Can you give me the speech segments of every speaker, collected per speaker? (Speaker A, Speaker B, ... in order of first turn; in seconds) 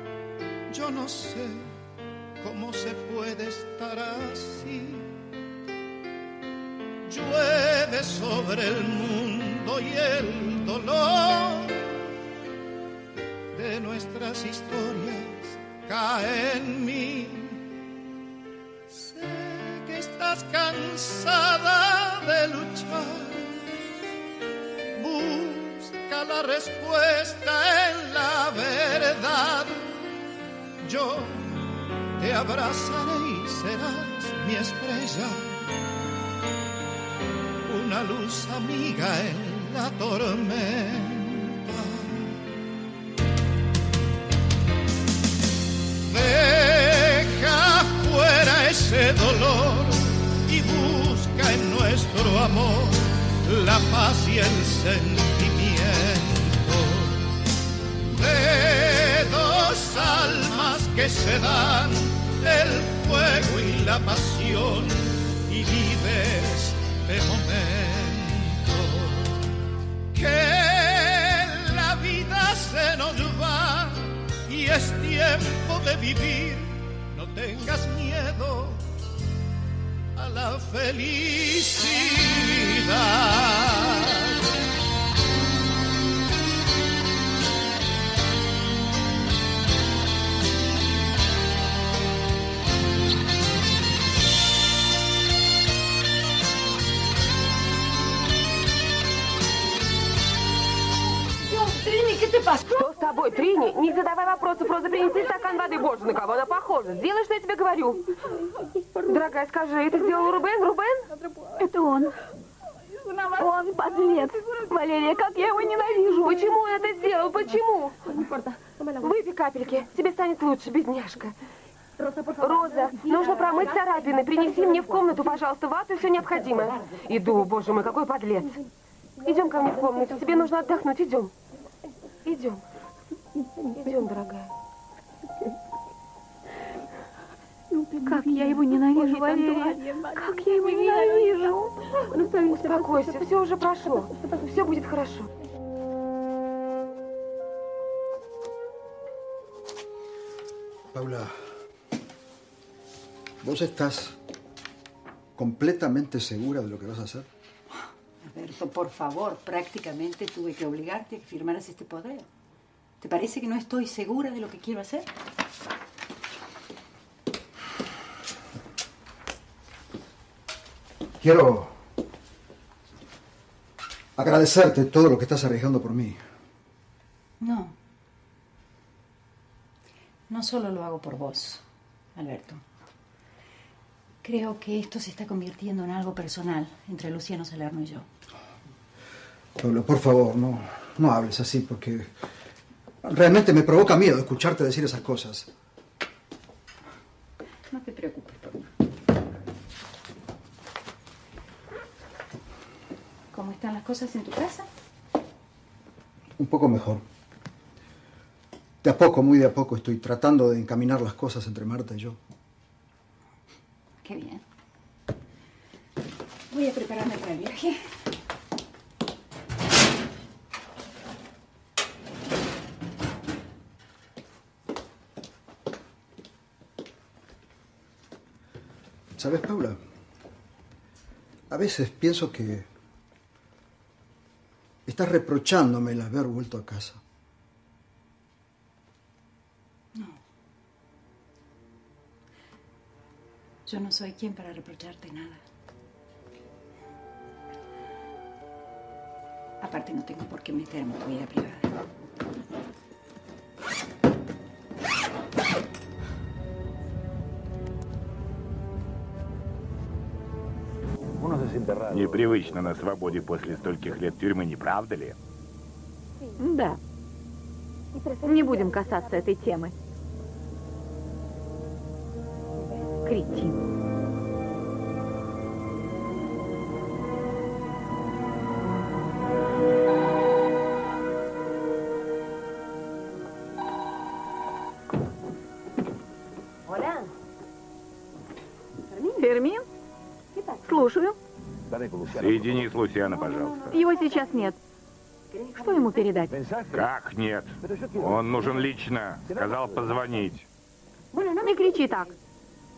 Speaker A: 0.7-1.7, 2.4-5.1, 7.0-11.9, 13.5-17.6, 18.9-23.6, 24.9-30.1, 30.8-35.5, 37.6-42.4, 46.0-57.4, 58.1-69.4, 70.1-78.9, 80.2-84.3
Speaker B: 102.7-108.0, 109.0-111.1, 115.9-118.0, 119.0-121.3, 122.4-128.6, 129.2-131.3, 132.2-132.6, 133.8-134.5, 142.5-145.3
Speaker C: 111.6-112.1, 113.3-116.0, 138.0-141.7, 266.4-266.8, 268.2-269.7, 273.0-273.6, 289.0-289.6, 290.6-291.1, 293.7-294.6, 295.3-296.4, 301.3-302.1
Speaker D: 150.9-151.3, 153.4-154.2, 155.3-157.3, 171.2-171.7, 174.2-176.2, 189.6-192.1, 193.0-195.5, 206.4-207.0, 208.8-212.2, 229.2-229.8, 231.5-232.7, 234.8-237.0
Speaker E: 158.2-162.3, 163.0-165.1, 177.4-177.7, 180.3-181.6, 182.1-182.6, 184.2-188.1, 197.7-198.7, 203.3-204.7, 214.0-214.4, 216.5-217.9, 239.9-240.2, 243.7-245.4, 249.6-251.7
Speaker F: 261.9-265.2, 292.0-293.8, 296.7-300.4